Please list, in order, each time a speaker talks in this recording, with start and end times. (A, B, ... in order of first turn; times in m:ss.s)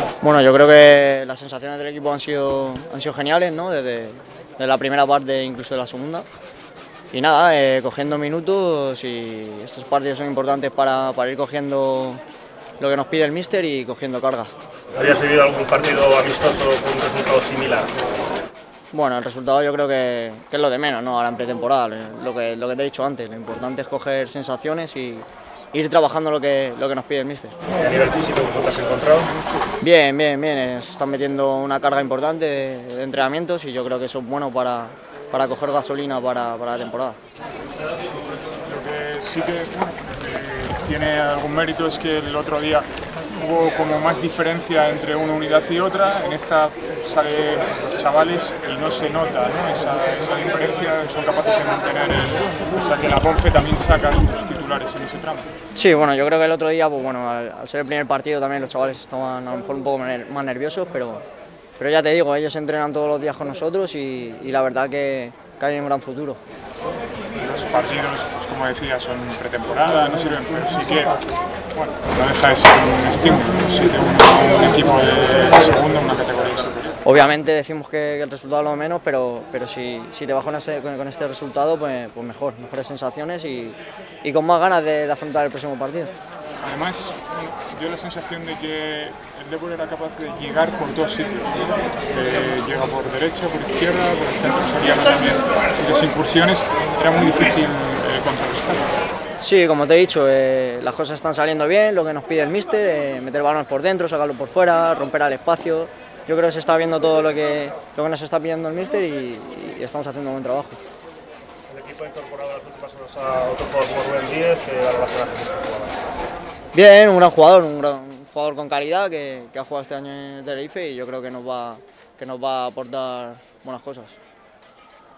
0:00.2-0:06.3 A
0:07.1-0:12.2 A
0:12.8-0:14.5 A
0:14.9-0:17.9 B
0:18.9-0:27.6 A
0:27.7-0:29.3 B
0:29.8-0:37.2 A
0:38.6-0:55.5 C
0:55.7-1:01.2 A
1:01.8-1:06.4 A
1:07.4-1:11.2 C
1:11.7-1:17.0 C
1:17.0-1:26.1 A
1:26.6-1:38.9 C
1:39.4-1:50.8 A
1:51.7-1:56.0 B
1:56.7-2:04.2 A